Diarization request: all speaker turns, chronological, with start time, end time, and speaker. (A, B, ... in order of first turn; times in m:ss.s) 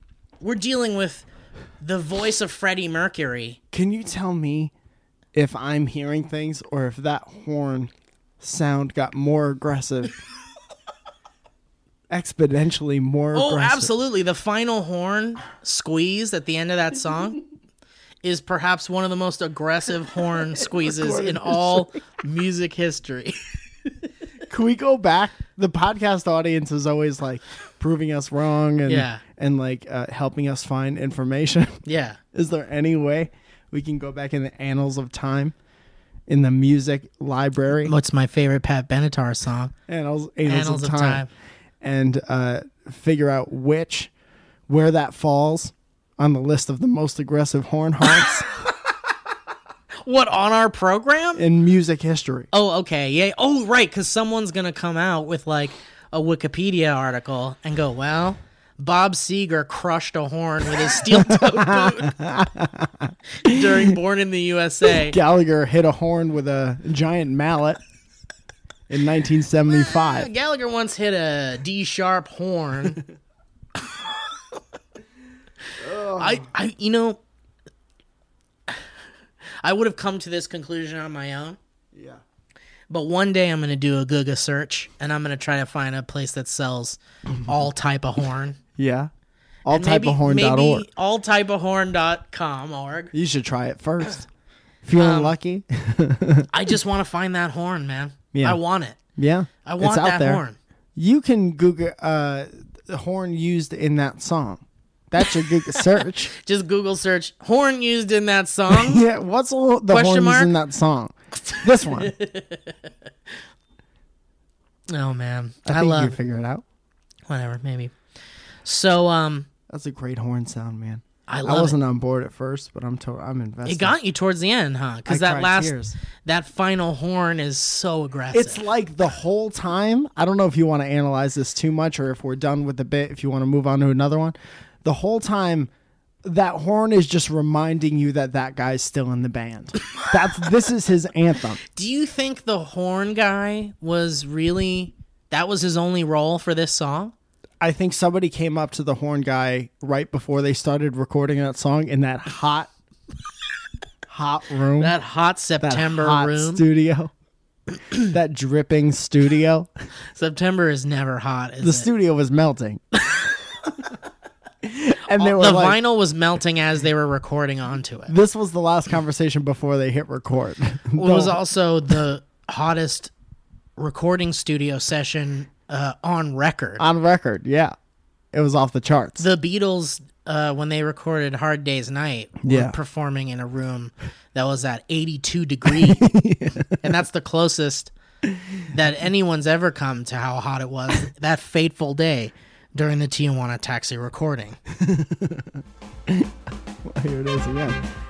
0:00.4-0:01.2 A
0:01.8-0:03.6 A
0:03.7-0:04.7 B
0:05.3-0:10.2 B
0:12.1-0:13.9 B
0:13.3-0:17.4 A
0:18.2-0:23.5 A
0:20.6-0:22.0 B
0:24.5-0:31.8 B
0:28.8-0:29.2 A
0:31.8-0:32.2 A
0:32.3-0:35.5 B
0:36.3-0:37.9 B
0:37.8-0:39.7 A
0:39.9-0:41.2 B
0:40.4-0:41.3 A
0:41.8-0:44.1 B
0:44.7-0:48.5 B
0:50.0-0:51.4 A
0:51.4-0:52.5 B
0:52.5-1:02.2 A
1:01.1-1:03.9 B
1:03.4-1:05.2 A
1:04.9-1:07.8 B
1:08.9-1:10.3 B
1:09.7-1:13.0 A
1:15.8-1:16.5 B
1:16.1-1:17.2 A
1:19.6-1:21.6 A
1:21.9-1:22.2 B
1:22.9-1:28.6 A
1:28.8-1:29.1 B
1:29.6-1:30.9 B
1:29.7-1:33.1 A
1:33.1-1:34.3 B
1:34.8-1:36.5 B
1:35.0-1:35.3 A
1:36.5-1:39.0 A
1:38.3-1:38.6 B
1:39.1-1:40.4 B
1:39.6-1:40.6 A
1:40.9-1:46.3 B
1:46.3-1:49.0 A
1:48.7-1:52.2 B
1:49.9-1:50.5 A
1:51.5-1:52.8 A
1:54.9-1:56.2 A
1:55.6-1:56.6 B
1:57.3-1:57.9 A
1:58.6-1:59.5 A
1:59.7-2:04.0 B
2:01.3-2:01.8 A
2:03.6-2:08.6 A
2:05.1-2:05.9 B
2:08.3-2:15.7 B
2:16.2-2:21.6 B
2:21.7-2:27.1 A
2:27.6-2:32.7 B
2:34.1-2:35.0 B
2:34.8-2:36.6 A
2:35.6-2:37.1 B
2:38.1-2:39.7 B
2:40.1-2:41.9 A
2:41.6-2:42.8 B
2:44.6-2:45.8 B
2:45.1-2:48.1 A
2:48.1-2:51.4 B
2:51.0-2:53.1 A
2:53.8-2:56.8 A
2:56.8-2:57.7 B
2:58.3-2:59.2 B
2:59.2-3:06.2 A
3:02.4-3:02.8 B
3:05.6-3:06.9 B
3:06.8-3:07.9 A
3:08.3-3:08.6 B
3:08.7-3:14.6 A
3:14.7-3:16.3 B
3:16.8-3:17.8 B